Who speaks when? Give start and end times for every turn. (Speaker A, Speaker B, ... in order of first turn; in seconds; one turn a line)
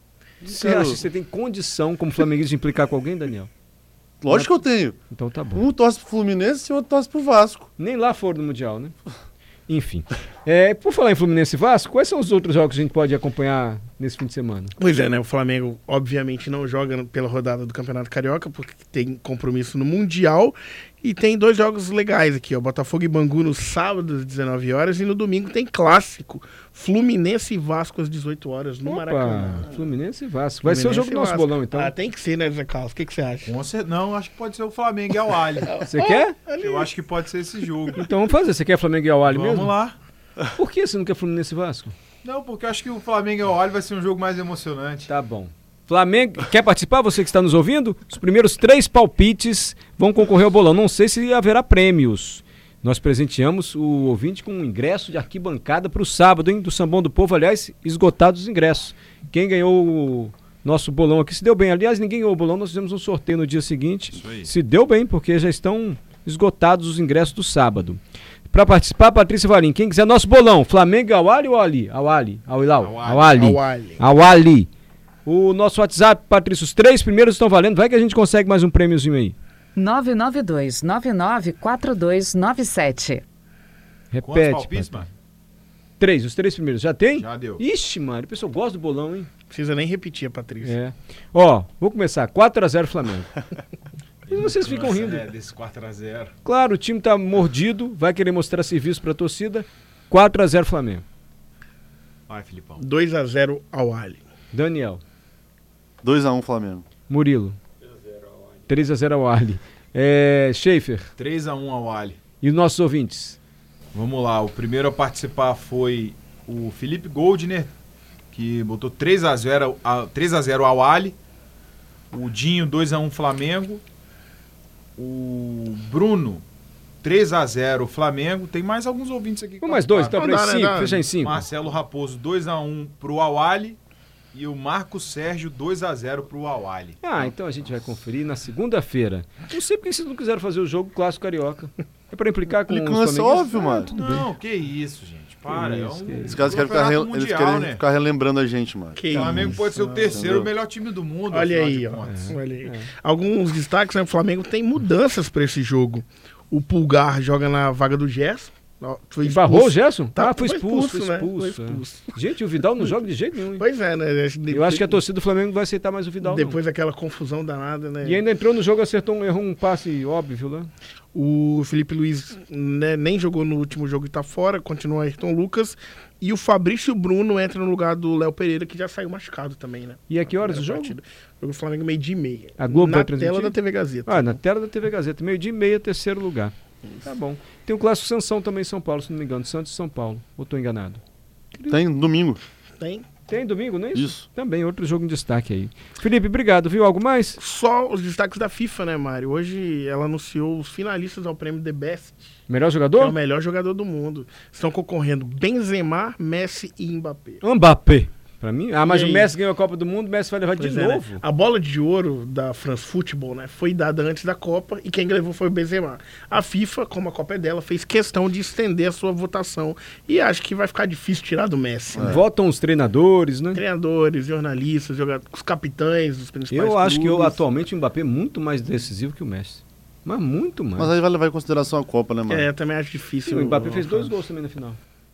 Speaker A: 0.4-1.0
Speaker B: 0.4-3.5
Speaker A: 4.2-5.0
Speaker B: 4.3-5.6
Speaker A: 5.5-7.7
Speaker B: 7.8-8.9
Speaker B: 9.7-14.7
Speaker C: 14.8-29.8
Speaker B: 28.8-31.9
Speaker C: 30.6-33.5
Speaker D: 33.4-35.7
Speaker C: 35.6-36.9
Speaker B: 35.8-36.4
Speaker D: 36.5-38.0
Speaker B: 38.0-39.7
Speaker D: 39.3-40.0
Speaker B: 40.5-41.9
Speaker D: 42.2-45.1
Speaker B: 45.1-68.0
Speaker D: 64.1-64.5
Speaker B: 68.5-74.7
Speaker D: 72.8-73.4
Speaker C: 73.3-74.0
Speaker B: 75.2-79.3
Speaker E: 79.7-83.2
Speaker B: 84.1-85.0
Speaker D: 84.2-85.1
Speaker B: 86.0-89.3
Speaker D: 87.1-87.6
Speaker C: 89.5-90.8
Speaker B: 90.6-93.3
Speaker D: 94.3-96.3
Speaker B: 94.3-95.2
Speaker B: 96.4-101.0
Speaker D: 102.3-102.8
Speaker C: 102.8-104.2
Speaker B: 104.5-105.0
Speaker A: 106.0-106.8
Speaker B: 107.1-107.6
Speaker B: 108.7-111.1
Speaker D: 111.2-112.2
Speaker B: 112.4-113.4
Speaker D: 113.9-117.7
Speaker D: 118.3-121.2
Speaker D: 122.1-123.8
Speaker D: 125.0-126.4
Speaker D: 127.0-130.2
Speaker B: 129.6-131.4
Speaker C: 130.1-131.1
Speaker D: 131.2-133.8
Speaker D: 134.3-137.3
Speaker B: 137.0-144.2
Speaker A: 142.5-143.9
Speaker D: 143.7-147.8
Speaker B: 145.5-146.5
Speaker A: 146.2-149.6
Speaker C: 148.9-150.3
Speaker D: 149.1-152.2
Speaker A: 150.1-150.5
Speaker C: 151.3-162.1
Speaker B: 152.1-152.9
Speaker B: 159.2-163.6
Speaker C: 163.6-165.0
Speaker B: 164.5-166.6
Speaker C: 166.2-168.2
Speaker B: 168.0-170.7
Speaker C: 171.1-184.4
Speaker B: 180.1-180.9
Speaker B: 182.6-183.5
Speaker B: 184.1-186.5
Speaker B: 187.0-191.0
Speaker A: 191.7-192.4
Speaker C: 192.8-193.1
Speaker B: 193.3-197.4
Speaker A: 193.9-194.2
Speaker C: 197.4-202.3
Speaker B: 202.5-203.2
Speaker C: 203.0-207.4
Speaker B: 207.4-211.2
Speaker C: 208.8-209.3
Speaker C: 210.6-222.2
Speaker A: 221.9-222.2
Speaker B: 222.0-223.6
Speaker C: 223.5-227.4
Speaker B: 226.5-230.9
Speaker A: 230.8-232.5
Speaker C: 232.3-234.1
Speaker B: 233.2-234.8